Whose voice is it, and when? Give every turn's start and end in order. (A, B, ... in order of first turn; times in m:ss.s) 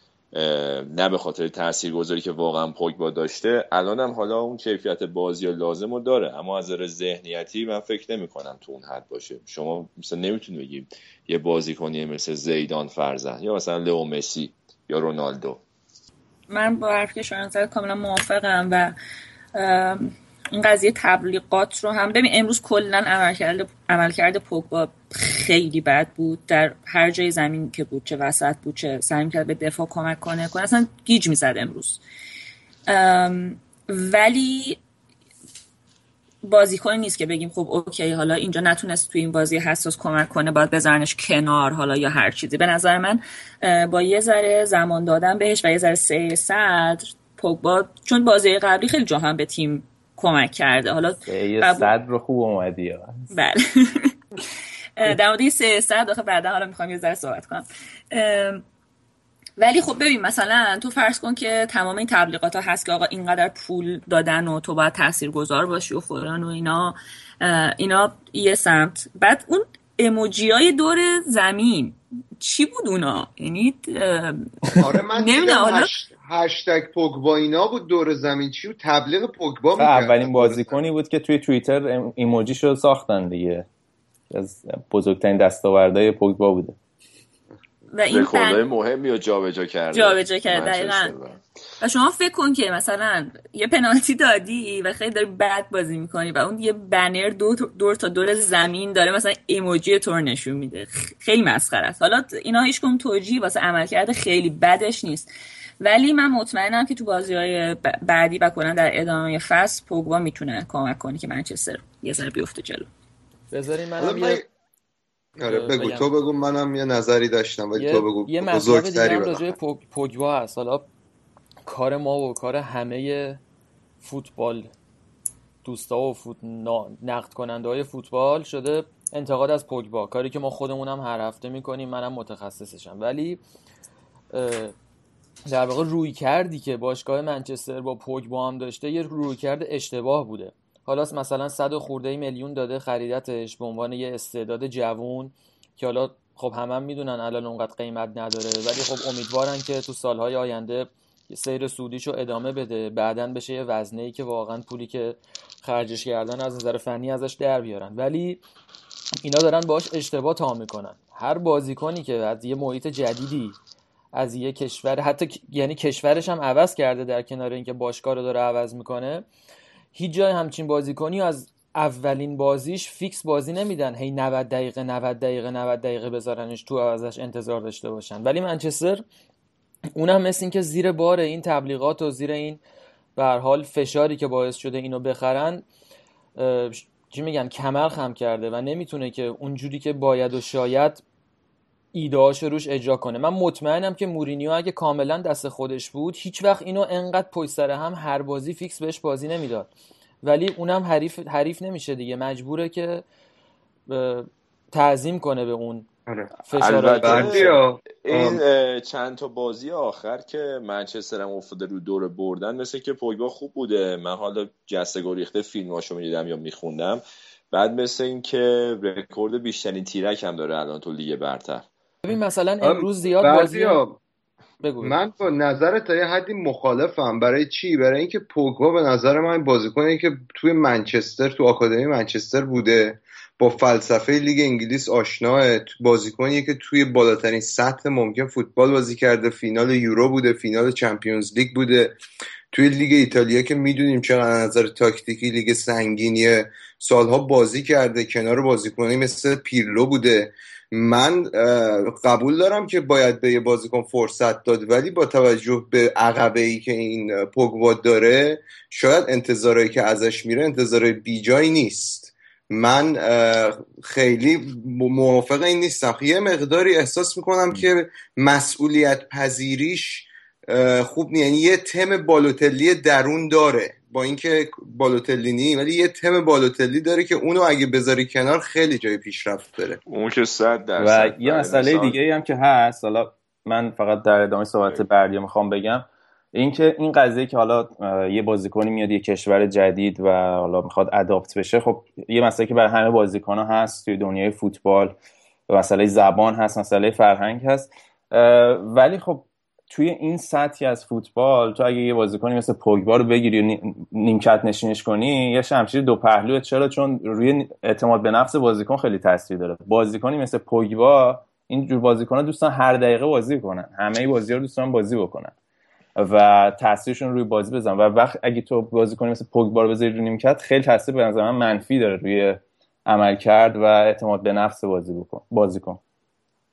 0:00.3-0:15.6 A
0:16.5-0:18.9 B
0:19.5-0:32.0 B
0:32.9-0:34.8 B
0:36.4-0:51.9 B
0:51.3-0:53.1 C
0:53.3-0:54.4 B
0:55.0-0:58.6 B
0:59.6-1:15.9 B
1:14.8-1:20.8 D
1:19.8-1:23.6 C
1:24.3-1:26.8 C
1:27.9-1:28.7 B
1:28.1-1:31.4 A
1:29.9-1:31.1 B
1:31.8-1:52.9 B
1:53.5-1:54.4 E
1:54.0-1:54.4 D
1:55.4-1:59.5 D
1:55.4-1:56.1 E
1:57.8-2:00.9 E
2:01.6-2:03.4 E
2:04.0-2:04.7 E
2:05.6-2:13.4 E
2:14.3-2:14.7 E
2:15.5-2:38.4 E
2:39.2-2:43.6 E
2:44.1-2:49.2 E
2:49.9-2:59.0 E
2:59.9-3:02.6 E
3:03.2-3:05.6 E
3:06.4-3:11.0 E
3:11.9-3:19.7 E
3:20.2-3:23.0 E
3:23.9-3:25.9 E
3:26.1-3:26.4 D
3:26.4-3:27.6 E
3:26.5-3:41.6 A
3:27.0-3:28.4 D
3:42.0-3:43.8 E
3:42.6-3:44.0 D
3:44.6-3:45.0 E
3:44.8-4:02.0 D
4:02.5-4:39.8 D
4:39.9-4:42.0 A
4:40.8-4:55.0 C
4:55.5-5:15.3 C
5:16.0-5:25.8 C